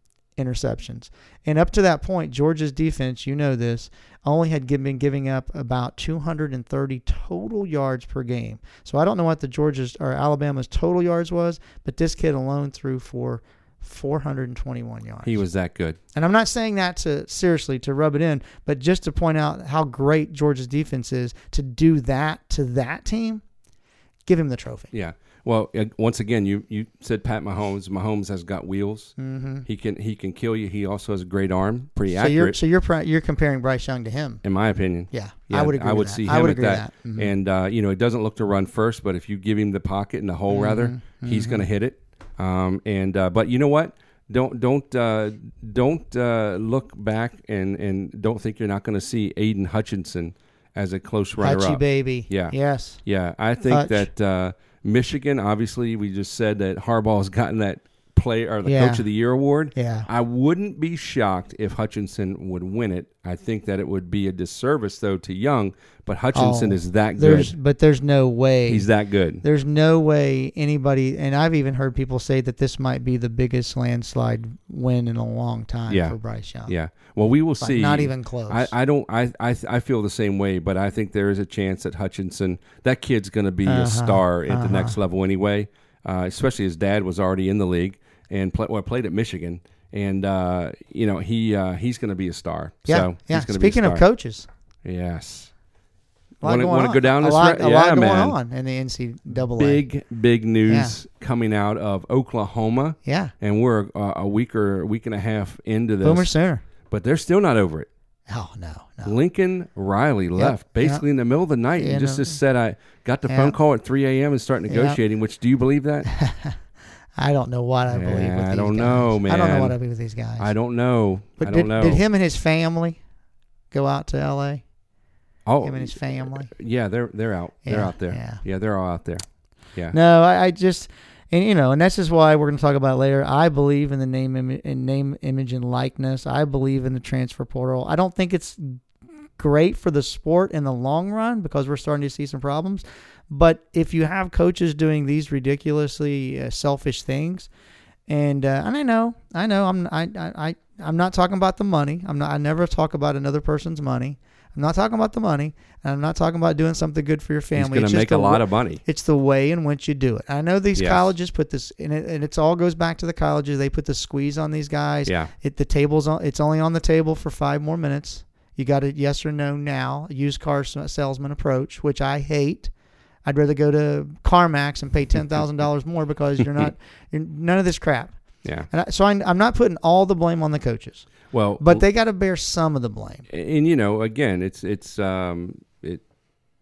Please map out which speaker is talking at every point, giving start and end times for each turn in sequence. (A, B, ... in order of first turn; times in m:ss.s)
0:00.4-0:15.4 A
0:15.2-0:16.0 B
0:16.1-0:23.4 A
0:24.2-0:24.9 A
0:24.9-0:29.1 B
0:29.2-0:29.6 A
0:29.6-0:32.6 B
0:32.1-0:34.4 A
0:34.4-1:07.5 B
0:35.1-0:37.3 A
0:40.5-0:41.6 A
0:51.4-0:53.0 A
0:53.7-0:54.1 A
0:58.6-0:59.0 A
0:59.7-1:00.1 A
1:06.3-1:08.9 A
1:08.7-1:09.4 B
1:09.4-1:16.7 A
1:15.9-1:34.0 B
1:17.6-1:18.7 A
1:23.6-1:24.9 A
1:32.8-1:34.5 A
1:34.8-1:35.5 B
1:36.4-1:38.4 B
1:36.4-1:39.8 A
1:39.5-1:46.3 B
1:40.7-1:40.9 A
1:43.0-1:43.3 A
1:46.0-1:46.6 A
1:46.9-1:47.9 B
1:48.3-1:49.2 A
1:49.0-1:56.1 B
1:50.4-1:51.0 A
1:51.8-1:52.4 A
1:53.3-1:53.6 A
1:54.7-1:55.0 A
1:56.0-1:56.6 A
1:57.2-2:00.5 A
1:57.9-1:59.8 B
2:00.4-2:02.0 B
2:01.4-2:03.0 A
2:03.7-2:04.6 A
2:05.4-2:10.0 B
2:05.6-2:06.5 A
2:07.6-2:08.4 A
2:09.9-2:18.8 A
2:19.4-2:27.5 A
2:28.1-2:52.7 A
2:37.5-2:38.8 B
2:40.8-2:41.1 B
2:45.0-2:45.3 B
2:53.2-2:58.2 A
2:56.4-2:56.7 B
2:58.4-2:58.7 B
2:58.7-3:01.1 A
3:01.3-3:01.8 B
3:01.6-3:03.2 A
3:03.3-3:06.0 B